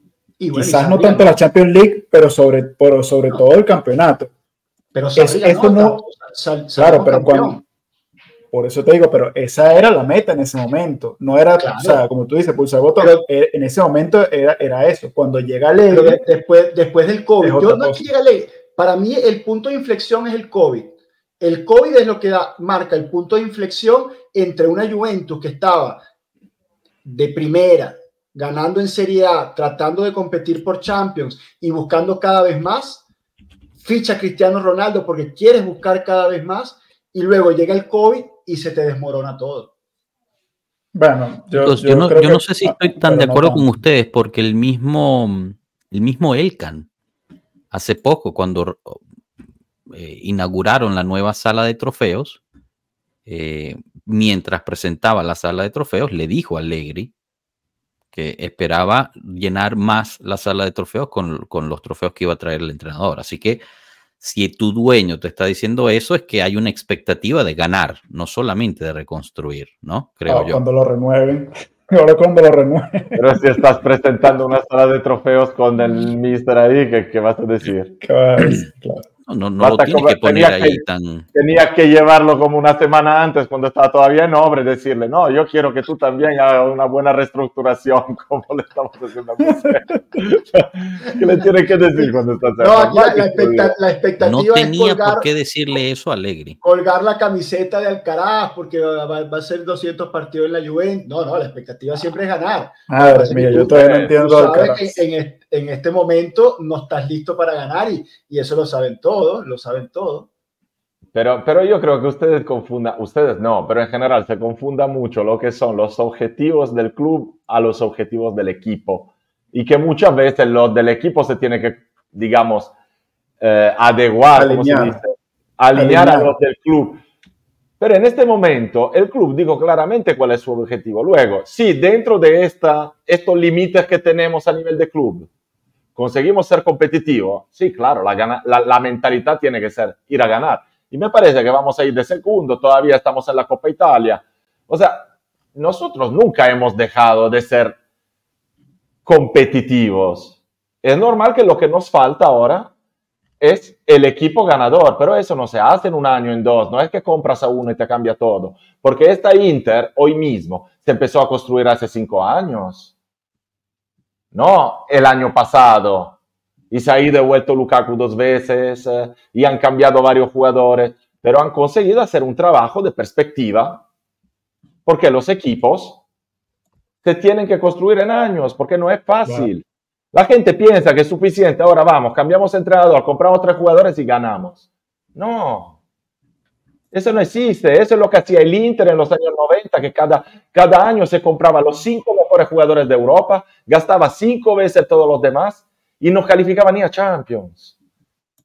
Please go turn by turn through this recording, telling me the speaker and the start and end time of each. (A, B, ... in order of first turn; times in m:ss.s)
0:00.4-0:01.4 A
0:00.5-0:04.3 B
0:04.9-0:07.6 A
0:05.2-0:06.0 B
0:06.8-0:07.6 B
0:08.5-0:16.2 B
0:11.6-0:12.0 A
0:15.9-0:26.0 A
0:17.4-0:18.0 B
0:27.0-0:33.0 A
0:33.8-0:39.7 A
0:40.9-0:43.7 B
0:41.6-0:46.9 C
0:47.7-0:49.0 C
0:49.9-0:52.4 C
0:53.2-0:57.1 C
0:58.1-1:03.6 C
1:04.2-1:10.6 C
1:10.3-1:13.3 B
1:13.1-1:18.0 D
1:18.0-1:19.1 B
1:19.2-1:21.3 C
1:19.6-1:20.8 D
1:21.3-1:33.7 D
1:32.6-1:35.3 A
1:34.2-1:36.6 C
1:36.6-1:50.3 A
1:42.9-1:45.0 B
1:43.5-1:44.1 D
1:51.1-2:02.7 D
2:03.4-2:07.0 D
2:04.4-2:05.0 B
2:05.7-2:06.3 B
2:07.8-2:15.3 D
2:15.9-2:27.8 D
2:29.0-2:32.7 D
2:33.4-2:42.9 D
2:44.3-2:46.2 D
2:46.7-2:53.8 D
2:54.8-2:56.0 D
2:57.0-3:04.6 D
3:05.2-3:05.8 D
3:06.9-3:17.7 D